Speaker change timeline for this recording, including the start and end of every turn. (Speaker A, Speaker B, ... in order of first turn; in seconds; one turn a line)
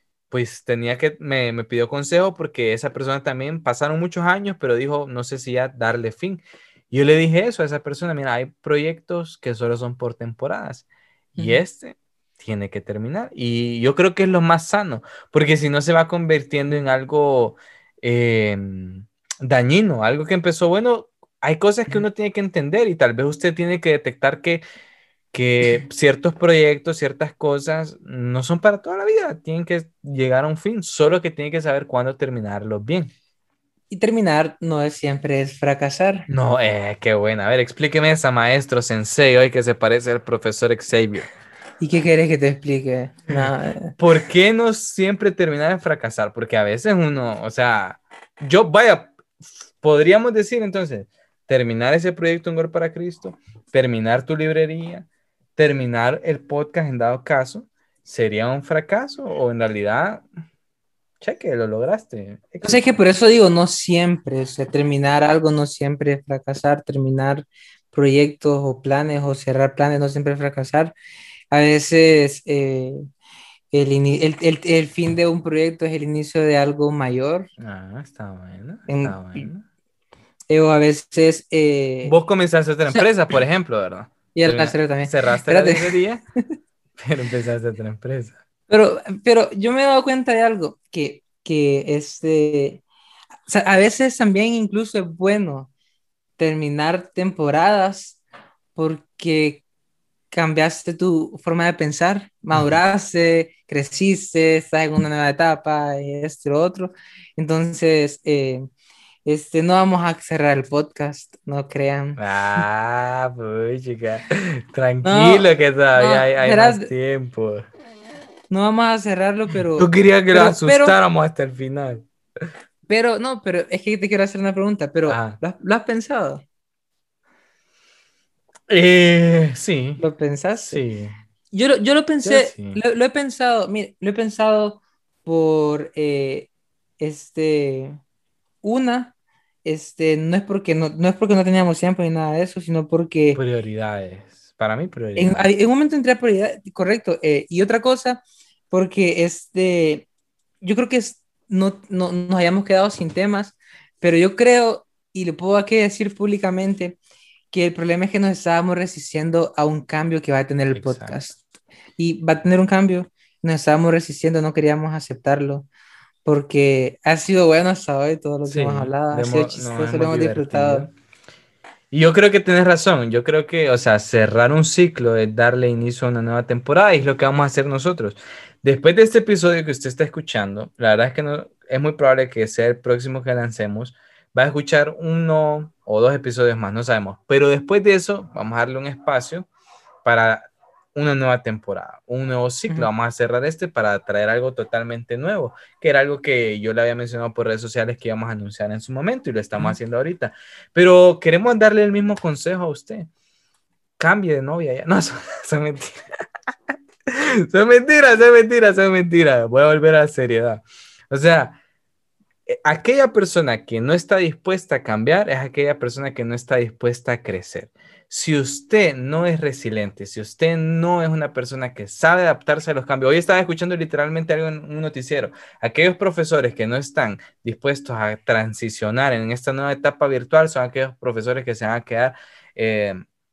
Speaker A: 0.3-24.6
Speaker B: 11.4-11.6
Speaker A: 25.3-33.1
Speaker B: 33.9-36.3
Speaker A: 36.3-41.3
Speaker B: 41.8-43.9
Speaker A: 43.3-60.2
Speaker A: 61.2-63.0
Speaker B: 62.6-70.9
Speaker B: 71.5-73.0
Speaker B: 73.7-77.5
Speaker A: 77.6-79.6
Speaker B: 78.9-79.5
Speaker B: 80.5-82.2
Speaker A: 82.0-86.2
Speaker B: 84.3-86.0
Speaker A: 87.0-88.4
Speaker B: 88.7-92.8
Speaker B: 93.5-95.7
Speaker B: 96.4-98.2
Speaker B: 98.7-99.6
Speaker B: 100.3-108.7
Speaker B: 109.2-112.6
Speaker A: 112.2-117.7
Speaker B: 115.0-116.9
Speaker B: 118.5-120.9
Speaker A: 119.8-122.0
Speaker B: 122.9-126.4
Speaker A: 125.1-125.4
Speaker A: 128.7-130.0
Speaker B: 130.0-130.8
Speaker A: 130.7-131.2
Speaker B: 131.5-138.0
Speaker A: 132.2-132.8
Speaker B: 138.6-143.4
Speaker A: 143.3-145.4
Speaker B: 145.2-150.1
Speaker B: 150.6-157.0
Speaker B: 157.5-161.4
Speaker A: 160.7-161.3
Speaker B: 162.0-165.7
Speaker B: 166.2-170.9
Speaker A: 168.4-170.9
Speaker A: 171.9-189.5
Speaker A: 190.0-203.1
Speaker A: 204.0-206.0
Speaker A: 207.1-211.6
Speaker A: 212.5-233.0